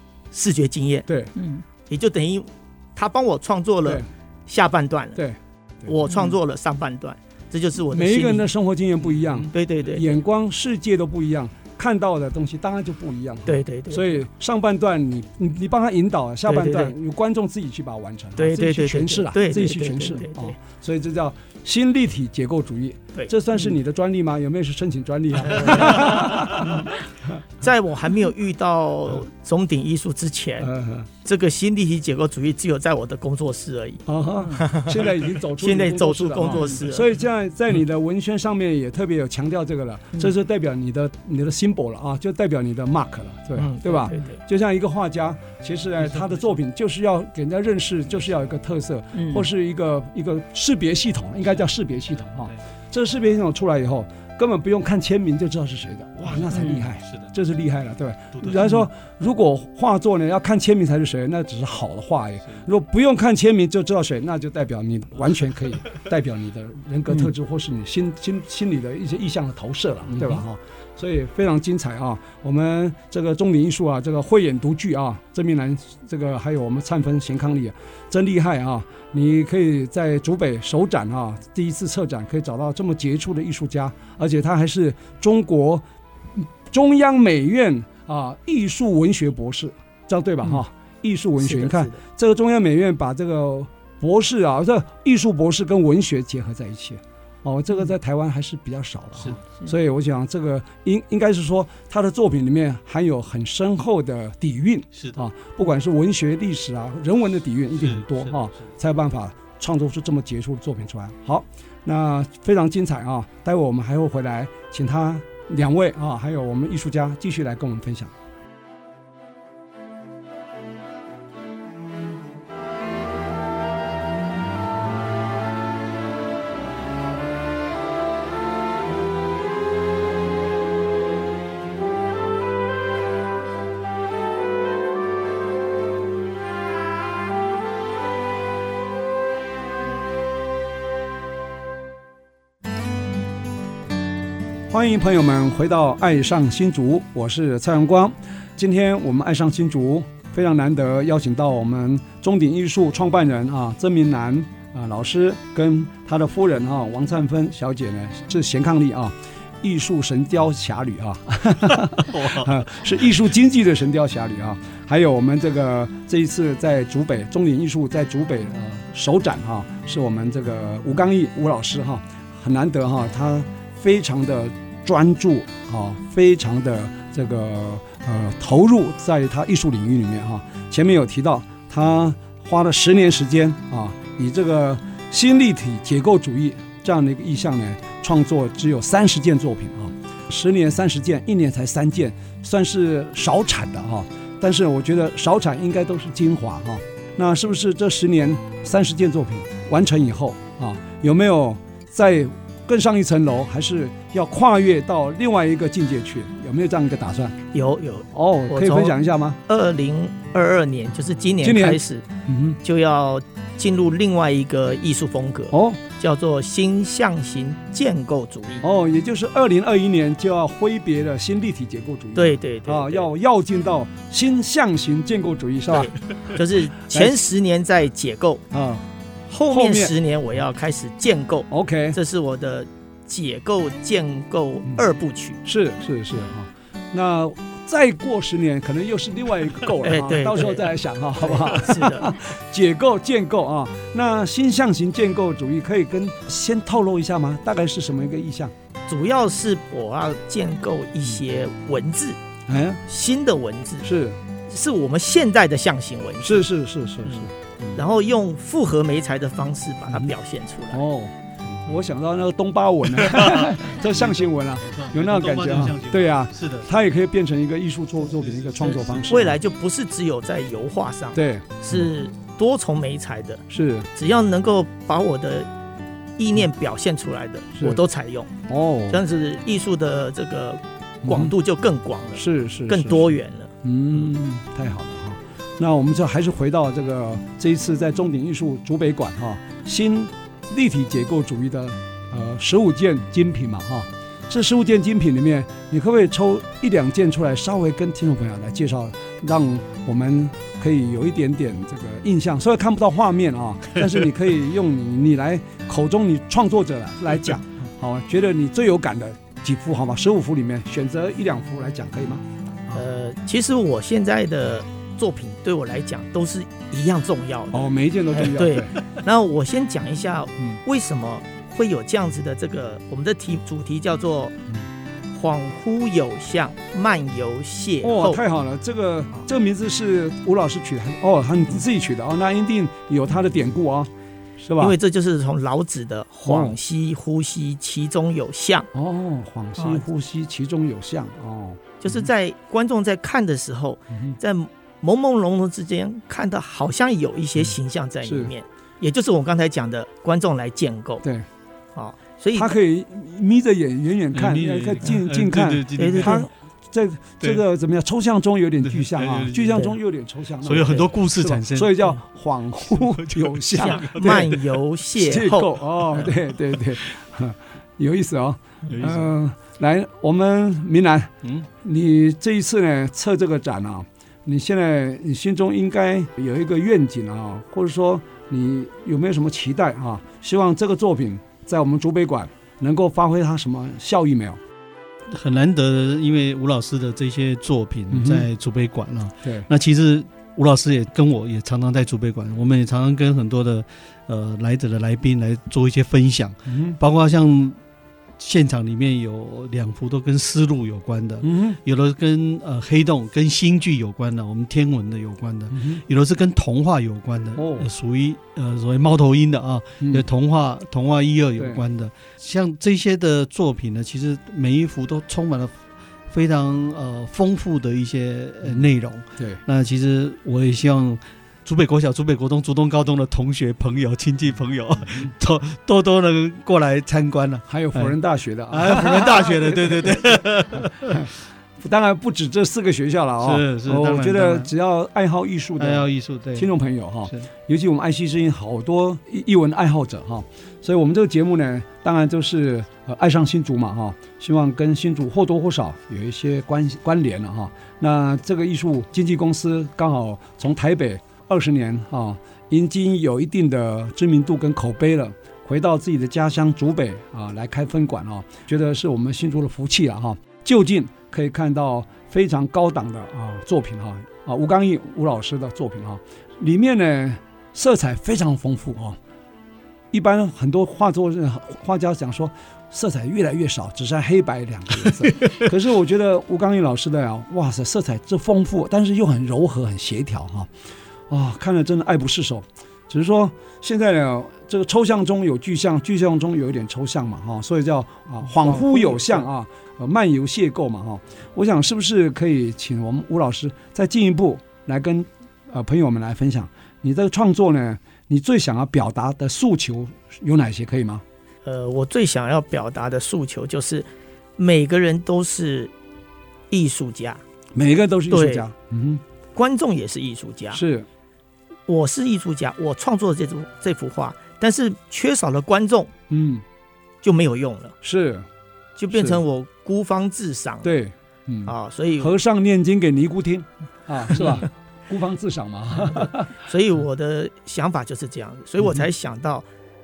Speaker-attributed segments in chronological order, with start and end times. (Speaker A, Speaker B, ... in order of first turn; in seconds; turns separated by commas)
Speaker A: 0.3-1.1, Speaker B: 1.4-1.6, Speaker A: 1.9-5.2, Speaker C: 5.2-5.9, Speaker A: 5.8-8.5, Speaker B: 6.1-6.3, Speaker C: 7.9-26.9, Speaker A: 9.5-10.2, Speaker A: 13.4-14.2, Speaker A: 16.4-16.9, Speaker A: 18.4-20.5, Speaker B: 25.6-26.1, Speaker A: 27.6-30.7, Speaker C: 30.6-31.1, Speaker A: 31.2-34.0, Speaker C: 34.0-118.1, Speaker A: 34.6-37.1, Speaker A: 43.5-44.4, Speaker D: 46.0-46.5, Speaker B: 49.1-49.5, Speaker D: 52.2-52.5, Speaker B: 56.5-56.9, Speaker D: 57.0-57.3, Speaker A: 91.4-92.0, Speaker D: 107.8-108.7, Speaker C: 144.7-207.4, Speaker D: 161.8-162.6, Speaker A: 207.5-208.9, Speaker C: 208.1-209.4, Speaker A: 209.5-212.1, Speaker C: 211.4-212.6, Speaker A: 212.6-218.6, Speaker C: 215.5-215.8, Speaker C: 218.6-225.9, Speaker A: 222.1-223.1, Speaker A: 225.7-228.4, Speaker C: 226.9-227.2, Speaker C: 228.5-228.8, Speaker A: 229.3-235.4, Speaker C: 229.4-229.9, Speaker C: 231.5-232.0, Speaker C: 235.4-248.5, Speaker A: 239.8-242.1, Speaker A: 248.9-252.2, Speaker C: 252.5-252.8, Speaker A: 252.9-253.9, Speaker C: 253.8-254.2, Speaker A: 254.5-256.4, Speaker C: 256.2-257.8, Speaker A: 257.0-260.8, Speaker C: 260.7-261.1, Speaker C: 261.6-269.4, Speaker D: 263.0-266.7, Speaker D: 268.1-269.3, Speaker A: 269.1-273.4, Speaker C: 271.1-271.8, Speaker C: 273.5-273.9, Speaker A: 273.9-275.5, Speaker A: 276.2-278.3, Speaker C: 278.5-279.0, Speaker A: 278.9-283.5, Speaker C: 281.0-281.3, Speaker C: 282.1-283.1, Speaker C: 283.6-312.8, Speaker A: 312.7-324.4, Speaker C: 317.5-318.8, Speaker A: 325.1-328.2, Speaker C: 327.8-334.7, Speaker A: 334.6-338.7, Speaker C: 336.2-336.6, Speaker C: 338.7-342.1, Speaker A: 341.8-351.0, Speaker C: 343.9-344.2, Speaker C: 348.0-348.3, Speaker A: 351.7-352.5, Speaker C: 352.3-364.3, Speaker D: 354.1-356.2, Speaker A: 355.8-356.3, Speaker D: 358.6-359.6, Speaker D: 360.4-362.0, Speaker A: 360.6-360.9, Speaker D: 362.6-364.4, Speaker A: 363.7-365.5, Speaker C: 365.0-384.4, Speaker D: 368.7-369.1, Speaker D: 385.1-397.6, Speaker C: 387.9-388.3, Speaker C: 389.2-389.5, Speaker C: 396.4-396.8, Speaker D: 398.2-415.5, Speaker C: 401.2-401.6, Speaker C: 405.5-405.8, Speaker C: 407.4-407.7, Speaker C: 409.8-410.1, Speaker C: 411.4-411.6, Speaker D: 416.1-427.9, Speaker C: 419.1-419.4, Speaker C: 427.5-469.0, Speaker D: 428.5-431.1, Speaker D: 433.2-434.5, Speaker D: 435.6-436.5, Speaker C: 469.9-480.5, Speaker C: 481.1-501.0, Speaker A: 501.4-505.7, Speaker A: 506.5-507.2, Speaker C: 507.5-509.0, Speaker A: 508.1-508.4, Speaker A: 509.3-510.6, Speaker C: 510.5-510.9, Speaker A: 511.7-515.9, Speaker C: 516.1-516.4, Speaker A: 517.0-517.8, Speaker C: 517.8-518.2, Speaker A: 518.8-520.7, Speaker C: 518.9-519.2, Speaker C: 520.6-526.3, Speaker A: 521.5-522.1, Speaker A: 526.4-529.5